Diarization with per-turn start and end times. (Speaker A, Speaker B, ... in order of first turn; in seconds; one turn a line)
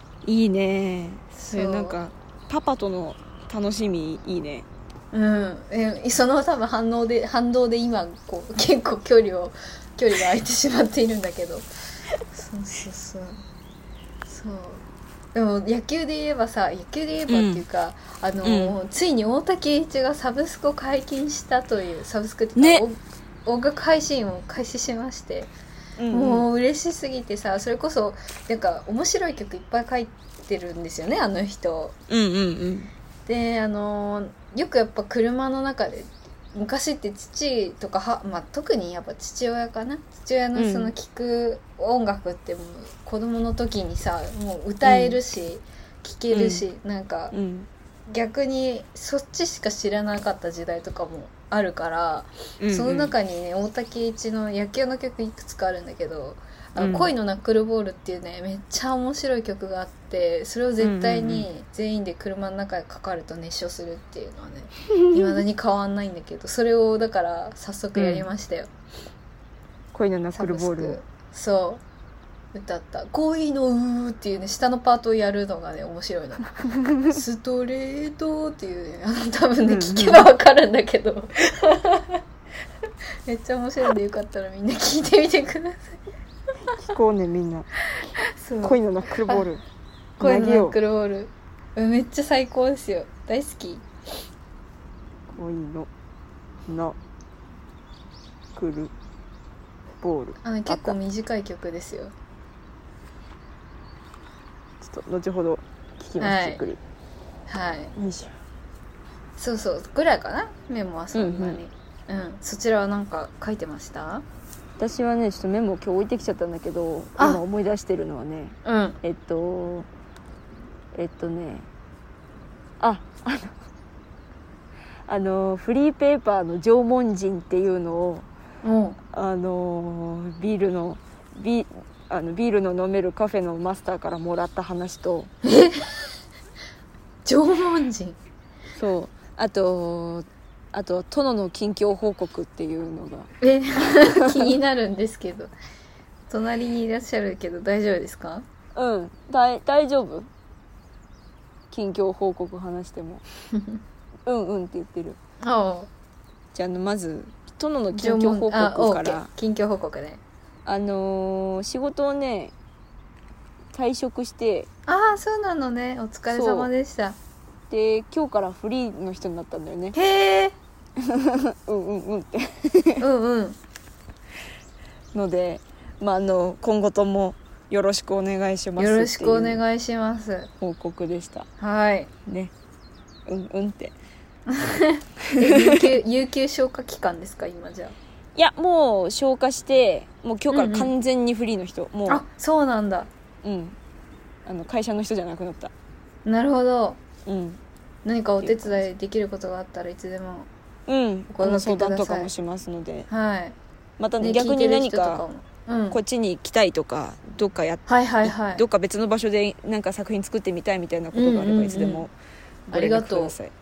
Speaker A: 0.2-4.7
Speaker B: 1.3-2.0
Speaker B: 5.1-11.7
Speaker B: 12.3-13.4
Speaker B: 14.3-25.5
Speaker A: 17.3-17.6
Speaker A: 18.4-18.8
Speaker A: 22.6-22.9
Speaker A: 26.0-26.5
Speaker B: 26.1-32.0
Speaker A: 32.1-32.9
Speaker B: 33.3-47.4
Speaker A: 40.6-40.9
Speaker A: 44.8-45.2
Speaker A: 46.3-46.6
Speaker A: 47.3-47.7
Speaker B: 48.1-68.7
Speaker A: 52.6-53.1
Speaker A: 56.8-57.1
Speaker A: 60.8-61.5
Speaker A: 64.9-65.4
Speaker A: 68.0-68.3
Speaker A: 69.9-71.0
Speaker B: 70.3-71.8
Speaker B: 72.5-82.2
Speaker A: 76.7-77.2
Speaker A: 79.7-80.2
Speaker B: 83.3-86.0
Speaker A: 86.7-87.7
Speaker B: 88.0-89.5
Speaker A: 88.6-89.6
Speaker A: 90.2-90.8
Speaker B: 90.2-93.8
Speaker A: 95.3-95.9
Speaker A: 96.7-97.0
Speaker A: 98.5-98.9
Speaker A: 100.0-101.0
Speaker B: 100.4-102.1
Speaker A: 104.8-106.8
Speaker B: 106.2-106.6
Speaker B: 107.5-107.9
Speaker A: 108.0-108.3
Speaker B: 109.4-114.2
Speaker A: 111.1-111.6
Speaker A: 114.8-119.9
Speaker B: 117.2-117.4
Speaker B: 118.7-119.0
Speaker A: 120.9-121.7
Speaker A: 122.8-123.6
Speaker A: 125.1-128.3
Speaker B: 128.6-129.0
Speaker A: 129.1-135.3
Speaker B: 135.4-136.0
Speaker B: 137.2-138.2
Speaker A: 138.8-143.3
Speaker B: 143.4-145.5
Speaker A: 143.9-144.5
Speaker B: 146.3-148.5
Speaker A: 148.8-150.3
Speaker A: 151.7-153.2
Speaker B: 153.5-153.8
Speaker A: 154.3-155.2
Speaker B: 155.4-155.9
Speaker A: 156.5-159.3
Speaker B: 157.9-160.2
Speaker A: 160.7-162.5
Speaker A: 163.7-164.7
Speaker B: 164.9-167.2
Speaker A: 166.3-166.7
Speaker A: 167.7-170.0
Speaker B: 169.9-170.6
Speaker A: 171.0-173.0
Speaker B: 173.0-173.6
Speaker A: 175.1-179.6
Speaker B: 178.8-180.5
Speaker A: 180.6-181.5
Speaker B: 181.6-182.1
Speaker A: 182.3-182.5
Speaker A: 183.3-183.9
Speaker B: 184.5-188.0
Speaker A: 185.3-185.9
Speaker A: 188.3-192.2
Speaker B: 190.5-190.9
Speaker B: 192.1-193.1
Speaker A: 193.4-193.8
Speaker A: 194.4-195.7
Speaker B: 196.2-197.0
Speaker A: 197.3-197.6
Speaker B: 198.1-200.5
Speaker A: 198.4-198.8
Speaker A: 200.9-203.1
Speaker B: 201.3-202.3
Speaker B: 203.1-203.6
Speaker A: 204.0-205.2
Speaker B: 204.2-206.0
Speaker A: 205.9-212.1
Speaker B: 207.9-208.6
Speaker B: 211.1-212.1
Speaker A: 212.7-213.5
Speaker B: 212.7-213.3